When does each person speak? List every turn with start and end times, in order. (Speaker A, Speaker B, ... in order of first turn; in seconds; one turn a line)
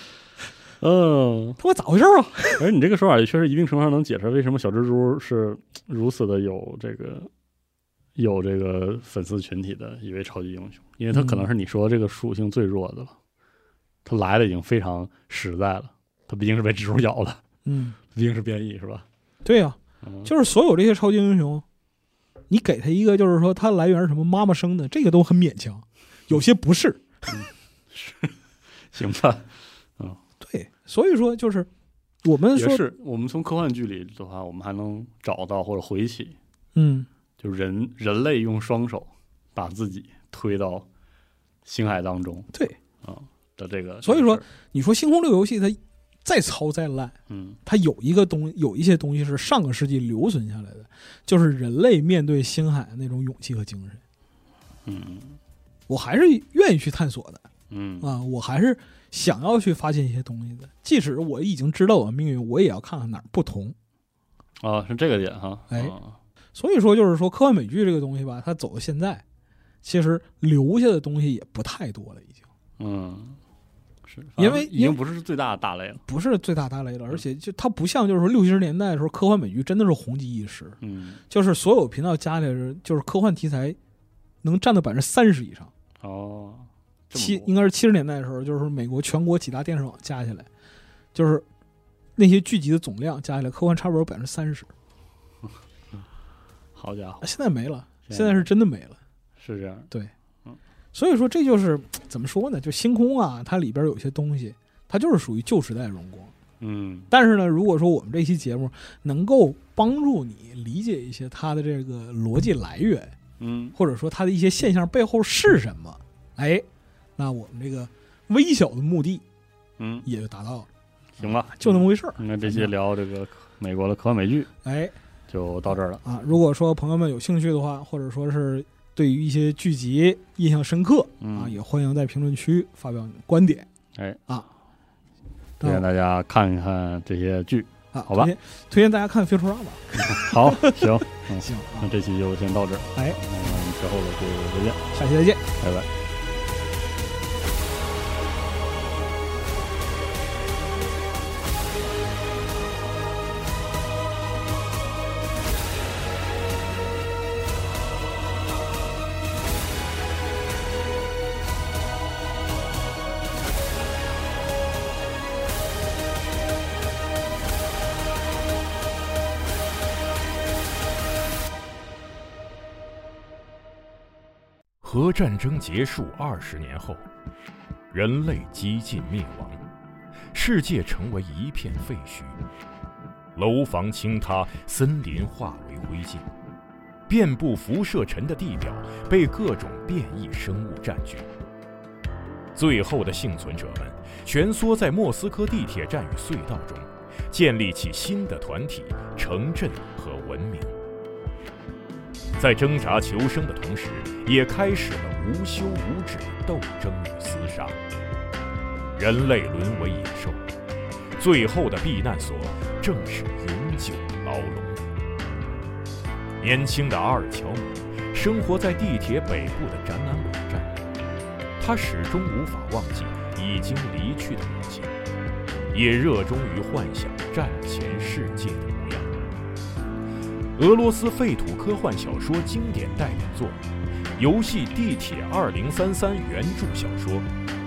Speaker A: 0.8-1.6
Speaker B: 1.6-2.7
Speaker A: 2.6-7.3
Speaker A: 8.2-13.2
Speaker B: 11.1-11.5
Speaker A: 14.1-17.4
Speaker B: 17.6-18.0
Speaker A: 18.1-19.1
Speaker B: 19.4-21.6
Speaker A: 20.0-20.3
Speaker B: 22.5-27.2
Speaker A: 27.3-30.2
Speaker B: 30.4-31.7
Speaker B: 32.2-32.9
Speaker A: 32.5-36.4
Speaker B: 36.8-37.1
Speaker A: 37.4-40.9
Speaker A: 41.6-42.5
Speaker A: 43.0-44.5
Speaker B: 44.0-54.0
Speaker A: 47.3-47.6
Speaker A: 54.9-55.4
Speaker B: 55.9-57.5
Speaker A: 57.7-58.1
Speaker B: 58.0-63.8
Speaker A: 64.6-66.2
Speaker B: 65.7-66.0
Speaker B: 66.5-69.2
Speaker B: 69.8-72.4
Speaker A: 72.8-73.4
Speaker A: 74.0-76.0
Speaker B: 74.4-75.0
Speaker B: 76.1-80.8
Speaker A: 80.8-81.2
Speaker B: 81.3-83.8
Speaker B: 84.4-85.7
Speaker A: 86.0-87.5
Speaker B: 87.1-90.5
Speaker B: 91.1-91.5
Speaker B: 92.2-94.7
Speaker A: 96.8-97.3
Speaker B: 97.2-99.0
Speaker A: 98.1-98.5
Speaker A: 99.4-99.9
Speaker B: 100.9-106.3
Speaker A: 106.6-107.1
Speaker B: 107.1-113.2
Speaker A: 113.4-113.8
Speaker B: 113.8-116.7
Speaker B: 117.2-119.2
Speaker A: 119.8-120.1
Speaker B: 120.0-120.7
Speaker A: 121.2-124.5
Speaker B: 121.2-122.7
Speaker B: 124.7-124.9
Speaker A: 125.3-126.0
Speaker B: 125.7-133.7
Speaker A: 131.2-131.6
Speaker A: 133.9-134.2
Speaker A: 135.6-138.3
Speaker B: 137.9-141.9
Speaker A: 140.0-144.8
Speaker B: 144.9-145.4
Speaker A: 145.6-145.9
Speaker C: 174.8-177.1
Speaker C: 177.9-179.6
Speaker C: 180.3-182.4
Speaker C: 183.4-186.3
Speaker C: 187.1-191.3
Speaker C: 192.6-200.8
Speaker C: 202.4-207.8
Speaker C: 209.0-210.4
Speaker C: 211.2-214.8
Speaker C: 216.4-220.8
Speaker C: 221.6-224.9
Speaker C: 225.7-229.2
Speaker C: 230.6-233.6
Speaker C: 234.2-237.3